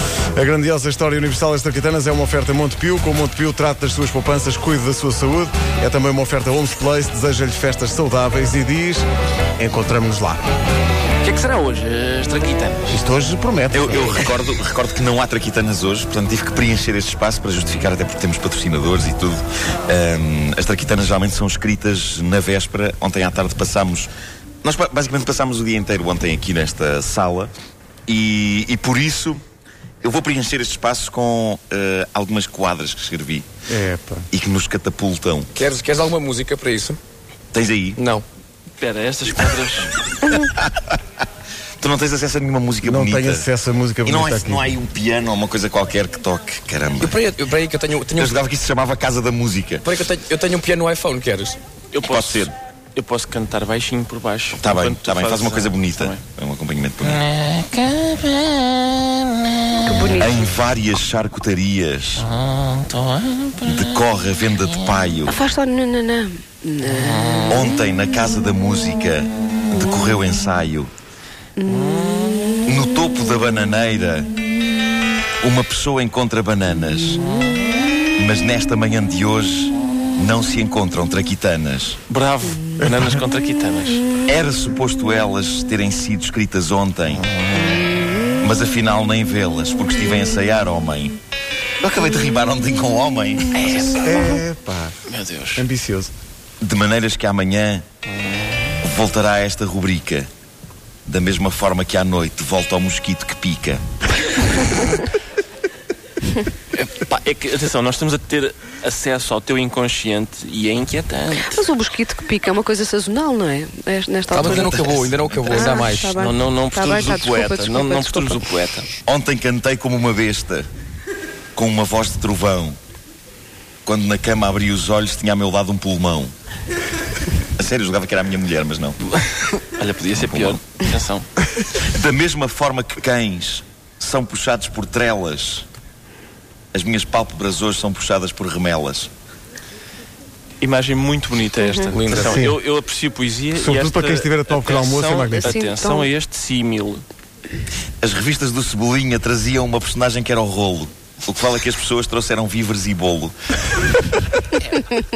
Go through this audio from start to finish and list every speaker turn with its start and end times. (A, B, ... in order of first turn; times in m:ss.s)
0:00.4-0:09.1 A
0:09.6-0:10.4 A
0:11.2-0:13.0 B
0:12.9-0:14.1 A
0:13.7-0:24.1 C
0:24.6-0:27.5 C
0:28.1-0:29.4 C
0:30.0-0:33.5 C
0:33.7-0:34.3 A
0:34.3-0:35.5 C
0:35.6-0:37.0 D
0:37.5-0:38.0 C
0:38.0-0:38.2 D
0:38.8-0:40.0 B
0:40.3-0:41.0 C
0:41.8-0:43.5 C
0:42.8-0:44.7 A
0:44.0-0:47.2 C
0:47.0-0:48.3 D
0:48.2-0:49.9 C
0:49.8-0:51.6 D
0:51.9-0:56.2 B
0:52.0-0:52.5 C
0:54.6-0:57.3 C
0:57.0-0:59.9 B
0:59.8-1:00.4 E
1:00.2-1:02.3 C
1:02.2-1:04.0 B
1:03.6-1:05.4 C
1:05.3-1:07.5 E
1:07.5-1:10.9 C
1:11.6-1:12.0 E
1:12.0-1:12.4 B
1:12.7-1:14.3 C
1:15.4-1:17.2 C
1:18.2-1:22.0 C
1:22.1-1:24.1 B
1:22.8-1:23.2 A
1:24.2-1:27.3 C
1:27.3-1:27.8 B
1:28.4-1:31.2 C
1:31.8-1:34.0 C
1:33.5-1:34.4 B
1:34.0-1:35.0 A
1:35.1-1:35.7 B
1:35.6-1:36.1 A
1:36.6-1:37.8 C
1:38.8-1:40.3 C
1:41.1-1:43.8 C
1:46.7-1:51.6 B
1:51.4-1:58.5 E
1:54.3-1:56.2 D
1:54.6-1:58.9 B
1:59.1-2:00.7 C
2:01.6-2:02.8 C
2:03.9-2:06.3 C
2:07.6-2:09.0 C
2:09.3-2:11.3 B
2:10.2-2:10.6 C
2:11.7-2:15.7 C
2:16.7-2:19.1 C
2:20.6-2:27.0 B
2:21.6-2:22.0 E
2:21.9-2:22.4 D
2:22.2-2:22.6 A
2:23.6-2:25.6 A
2:25.3-2:26.1 E
2:28.0-2:33.4 C